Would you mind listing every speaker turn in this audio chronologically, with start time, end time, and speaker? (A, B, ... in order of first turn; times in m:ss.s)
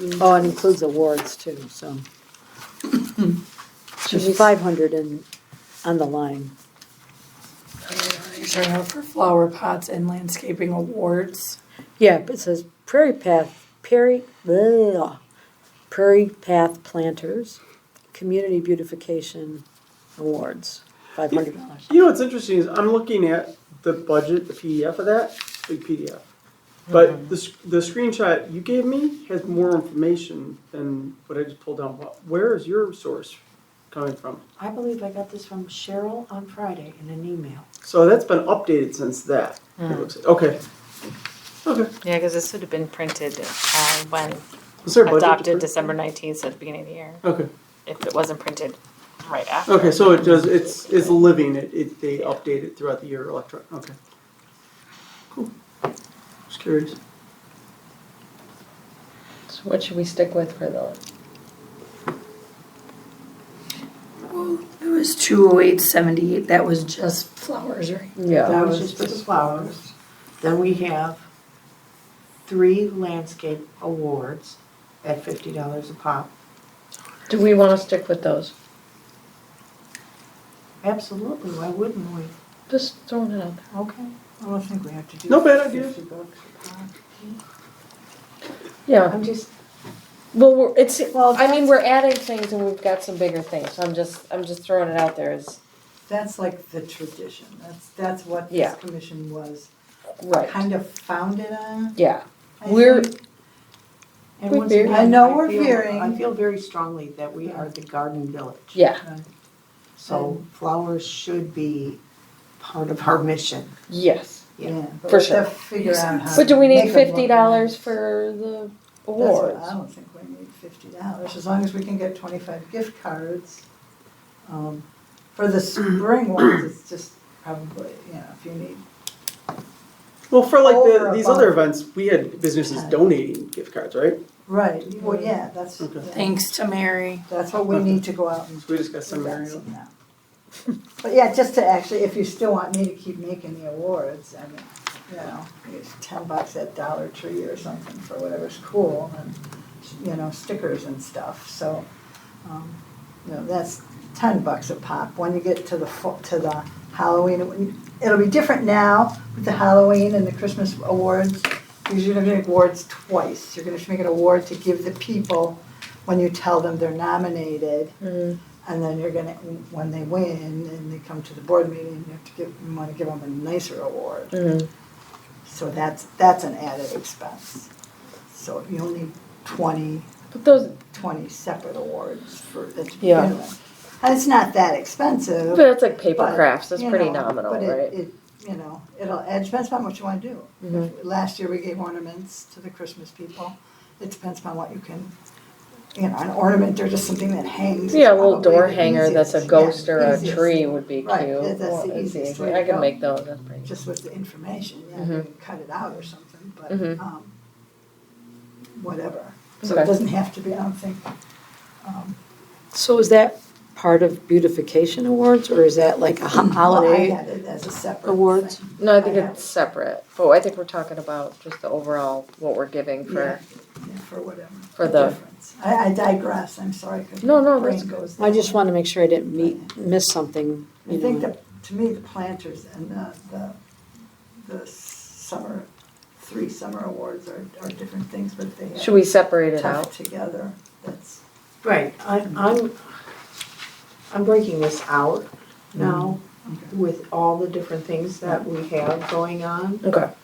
0:00.2-0:02.0 A
0:04.0-0:05.2 A
0:05.8-0:06.5 A
0:07.9-0:10.9 B
0:12.0-0:15.2 A
0:15.9-0:17.6 A
0:18.1-0:19.6 A
0:20.2-0:21.9 A
0:21.3-0:26.2 C
0:26.9-0:33.4 C
0:33.9-0:34.4 C
0:34.6-0:37.7 D
0:37.8-0:40.6 C
0:41.6-0:41.9 C
0:42.0-0:44.4 E
0:44.8-0:45.9 C
0:45.0-0:47.2 E
0:47.2-0:47.5 C
0:47.8-0:51.2 E
0:49.7-0:54.0 C
0:52.2-0:52.4 E
0:56.5-0:57.0 C
0:59.5-1:01.0 F
1:04.3-1:04.8 B
1:08.2-1:08.6 F
1:08.4-1:09.7 D
1:08.4-1:09.9 G
1:10.4-1:11.2 D
1:12.4-1:16.3 D
1:17.3-1:18.5 F
1:20.8-1:22.3 D
1:22.7-1:23.6 F
1:23.7-1:24.1 D
1:24.4-1:27.1 G
1:25.3-1:26.0 C
1:28.9-1:29.2 F
1:29.1-1:29.5 D
1:30.3-1:35.6 F
1:31.1-1:31.8 G
1:36.1-1:39.7 G
1:38.5-1:38.8 F
1:40.2-1:40.6 F
1:40.3-1:42.0 G
1:42.0-1:43.1 F
1:42.6-1:43.2 G
1:44.4-1:48.8 D
1:44.5-1:45.0 F
1:44.8-1:46.2 G
1:48.7-1:49.0 F
1:49.0-1:49.3 G
1:50.0-1:52.0 D
1:50.1-1:50.4 G
1:52.6-1:53.7 D
1:53.9-1:54.5 F
1:54.6-1:57.9 G
1:55.1-1:55.4 F
1:56.3-1:59.8 F
1:59.2-2:03.6 G
2:04.4-2:08.8 G
2:10.3-2:14.2 C
2:10.6-2:11.6 G
2:12.6-2:13.0 G
2:14.4-2:16.5 G
2:15.1-2:15.3 F
2:15.8-2:16.0 C
2:17.3-2:19.9 G
2:17.7-2:18.0 C
2:18.6-2:19.6 C
2:21.0-2:31.9 G
2:32.4-2:47.9 G
2:48.0-2:48.4 F
2:48.6-2:54.4 G
2:54.3-2:54.7 F
2:55.4-2:57.7 G
2:58.3-3:00.1 G
3:00.3-3:00.8 F
3:00.8-3:15.1 G
3:03.0-3:03.3 F
3:05.5-3:07.9 F
3:10.6-3:10.9 F
3:15.9-3:22.9 G
3:17.9-3:23.7 F
3:23.6-3:27.3 G
3:25.0-3:25.2 F
3:26.7-3:27.0 F
3:28.8-3:31.0 G
3:29.6-3:29.9 F
3:31.8-3:32.2 G
3:32.7-3:37.2 A
3:36.3-3:39.5 G
3:38.0-3:38.6 A
3:38.8-3:43.4 F
3:43.0-3:48.7 G
3:44.8-3:45.2 F
3:47.2-3:47.9 F
3:48.2-3:51.3 A
3:49.3-3:49.7 G
3:50.9-3:53.6 G
3:54.4-3:59.0 G
3:58.8-3:59.9 F
3:59.5-4:01.2 G
4:01.6-4:02.8 D
4:02.2-4:02.6 G
4:04.1-4:09.8 D
4:05.7-4:06.7 G
4:09.8-4:10.1 F